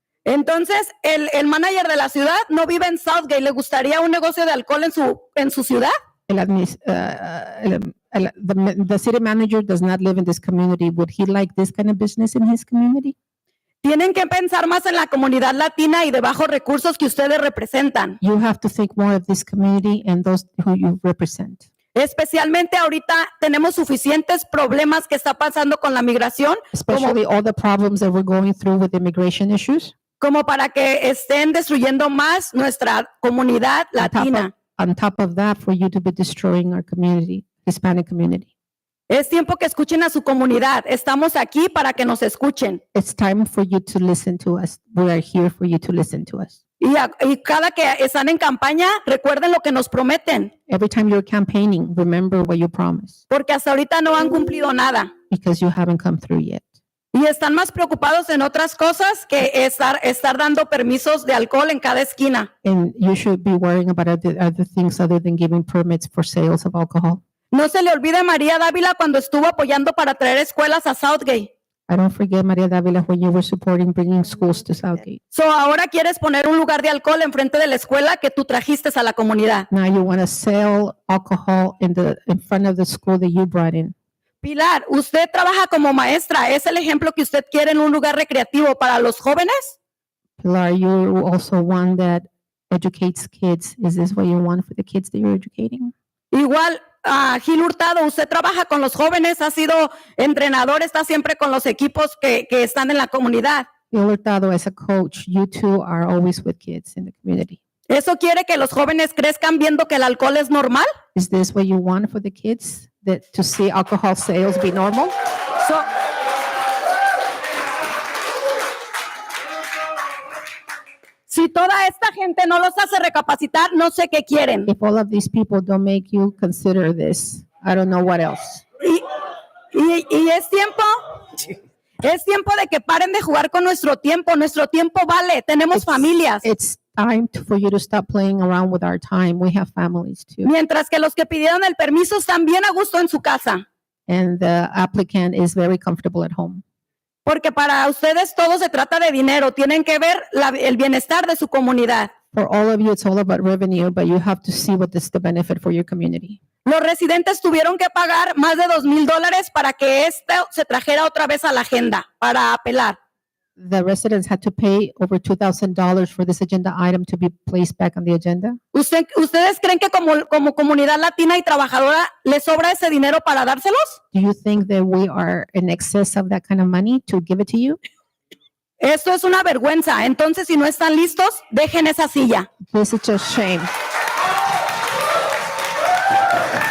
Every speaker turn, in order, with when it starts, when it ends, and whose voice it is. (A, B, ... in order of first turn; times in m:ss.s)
0:00.2-0:05.9 A
0:06.3-0:13.1 B
0:13.8-0:18.2 A
0:18.2-0:21.6 B
0:21.9-0:27.1 A
0:26.7-0:29.9 B
0:30.2-0:34.5 A
0:34.0-0:38.5 B
0:39.1-0:42.8 A
0:42.9-0:46.6 B
0:46.8-0:50.5 A
0:50.7-0:53.2 B
0:53.3-0:55.1 A
0:55.3-0:56.6 B
0:57.1-1:02.5 A
1:02.6-1:07.2 B
1:07.5-1:11.5 A
1:11.9-1:15.2 B
1:15.3-1:19.7 A
1:19.7-1:23.9 B
1:24.4-1:29.8 A
1:30.4-1:35.9 B
1:36.3-1:43.7 A
1:43.9-1:47.6 B
1:47.9-1:50.9 A
1:51.1-1:55.1 B
2:01.3-2:04.7 A
2:04.7-2:08.6 B
2:09.7-2:11.0 A
2:12.0-2:16.4 A
2:15.7-2:20.5 B
2:20.4-2:23.6 A
2:24.1-2:26.6 B
2:27.2-2:32.1 A
2:32.3-2:36.4 B
2:36.6-2:43.0 A
2:43.6-2:48.6 B
2:48.7-2:54.0 A
2:54.1-2:57.8 B
2:58.8-3:02.5 A
3:02.7-3:03.7 B